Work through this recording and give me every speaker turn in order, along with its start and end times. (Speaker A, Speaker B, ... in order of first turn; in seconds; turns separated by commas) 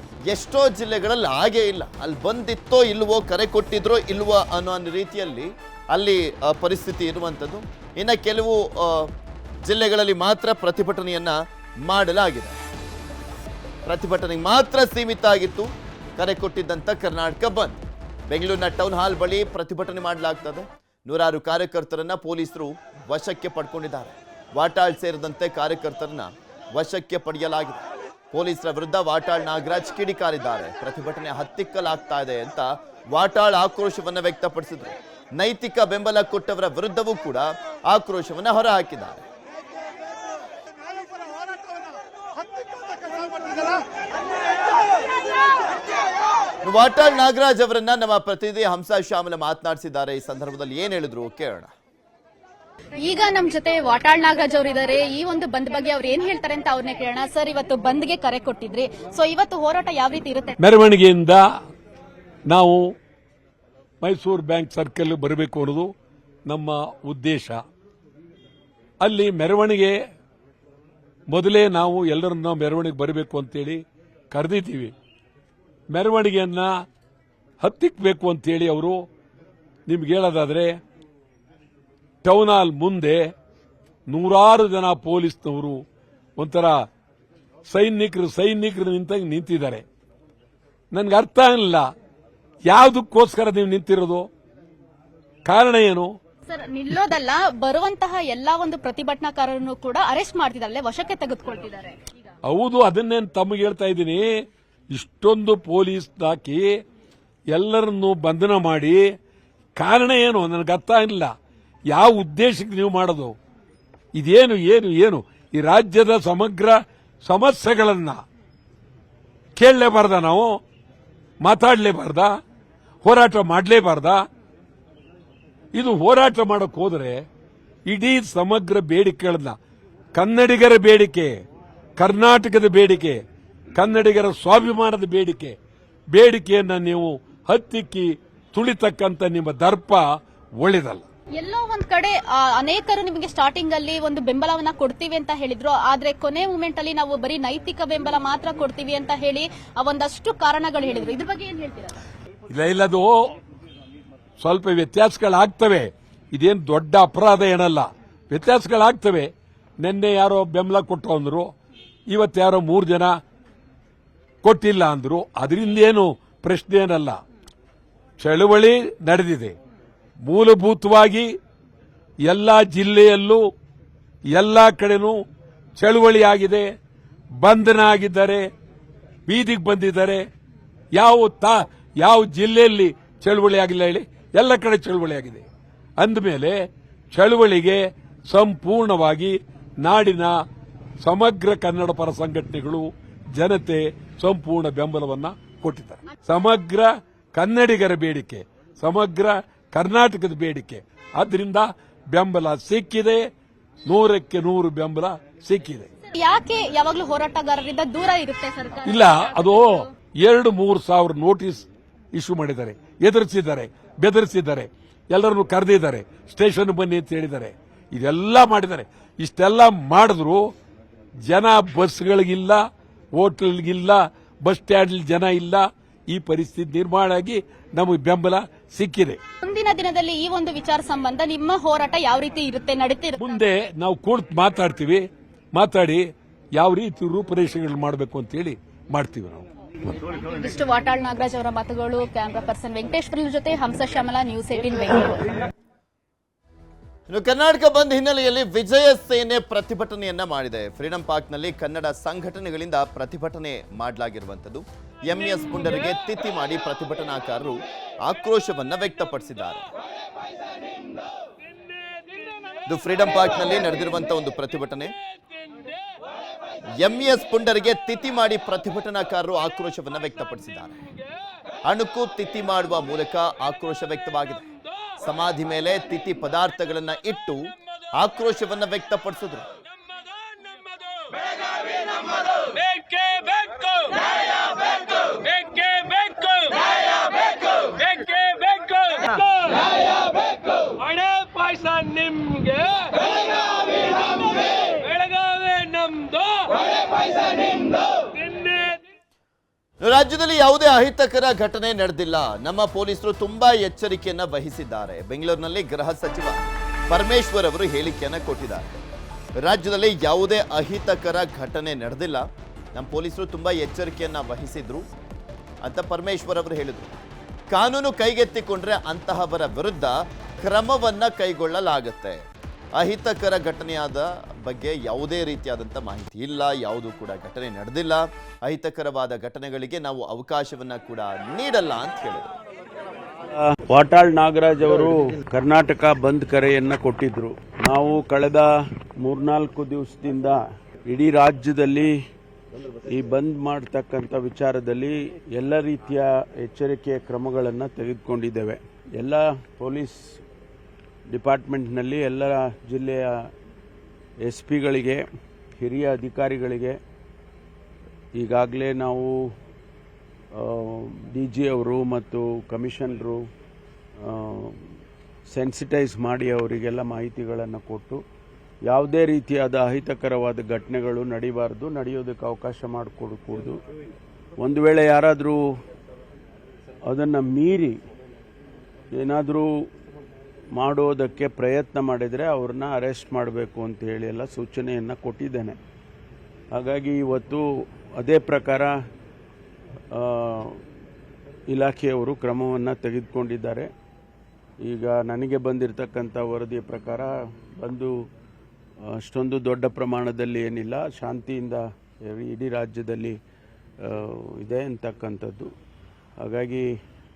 Speaker A: 0.3-9.1, Speaker A: 9.6-12.6, Speaker A: 13.9-17.8, Speaker A: 18.3-39.2, Speaker A: 46.6-51.7, Speaker B: 53.0-60.6, Speaker C: 60.6-61.4, Speaker C: 62.5-62.8, Speaker C: 64.0-65.9, Speaker C: 66.5-67.6, Speaker C: 69.0-69.9, Speaker C: 71.3-74.9, Speaker C: 75.9-76.7, Speaker C: 77.6-79.0, Speaker C: 79.9-80.7, Speaker C: 82.2-83.3, Speaker C: 84.1-85.8, Speaker C: 86.4-86.9, Speaker C: 87.7-89.8, Speaker C: 90.9-91.8, Speaker C: 92.7-94.3, Speaker C: 95.5-96.2, Speaker B: 96.5-101.9, Speaker C: 102.5-104.2, Speaker C: 104.9-106.7, Speaker C: 107.5-109.0, Speaker C: 109.8-111.3, Speaker C: 111.9-113.3, Speaker C: 114.2-118.2, Speaker C: 119.6-120.6, Speaker C: 121.4-122.3, Speaker C: 123.0-124.2, Speaker C: 125.8-127.2, Speaker C: 127.9-129.6, Speaker C: 130.2-131.3, Speaker C: 132.0-133.2, Speaker C: 133.8-135.6, Speaker C: 136.1-140.1, Speaker C: 140.6-141.1, Speaker B: 141.4-152.0, Speaker C: 152.5-153.3, Speaker C: 154.4-161.5, Speaker C: 162.1-163.1, Speaker C: 164.4-167.2, Speaker C: 168.2-169.6, Speaker C: 170.2-171.3, Speaker C: 172.2-173.4, Speaker C: 174.3-175.2, Speaker C: 175.8-176.7, Speaker C: 177.4-178.5, Speaker C: 179.3-180.2, Speaker C: 180.9-185.4, Speaker C: 186.0-186.6, Speaker C: 187.1-190.4, Speaker C: 191.0-203.3, Speaker C: 203.9-205.9, Speaker B: 206.1-209.9, Speaker C: 208.8-220.5, Speaker C: 221.3-222.6, Speaker C: 223.2-229.2, Speaker B: 229.4-233.4, Speaker C: 233.2-239.5, Speaker B: 240.2-245.2, Speaker A: 247.1-259.6, Speaker A: 262.7-264.9, Speaker A: 266.8-270.8, Speaker A: 271.7-274.5, Speaker A: 275.0-277.4, Speaker A: 277.9-279.5, Speaker D: 282.4-284.1, Speaker D: 284.8-289.0, Speaker D: 290.8-292.6, Speaker D: 294.9-296.5, Speaker D: 298.2-298.8, Speaker A: 299.8-308.8, Speaker A: 309.4-314.9, Speaker A: 315.6-316.9, Speaker A: 317.5-322.2, Speaker A: 322.8-332.3, Speaker E: 333.4-338.5, Speaker E: 339.0-341.9, Speaker E: 342.9-350.2, Speaker E: 351.1-353.3, Speaker E: 354.2-355.0, Speaker E: 355.6-356.8, Speaker E: 358.2-359.2, Speaker E: 360.4-363.2, Speaker E: 364.0-364.7, Speaker E: 365.3-368.0, Speaker E: 368.7-373.6, Speaker E: 374.4-375.4, Speaker E: 376.9-377.8, Speaker E: 378.9-379.5, Speaker E: 380.6-385.6, Speaker E: 386.6-387.4, Speaker E: 388.0-388.7, Speaker E: 389.9-390.6, Speaker E: 391.5-393.7, Speaker E: 394.6-397.9, Speaker E: 398.9-403.2, Speaker E: 403.8-405.5, Speaker E: 406.2-406.7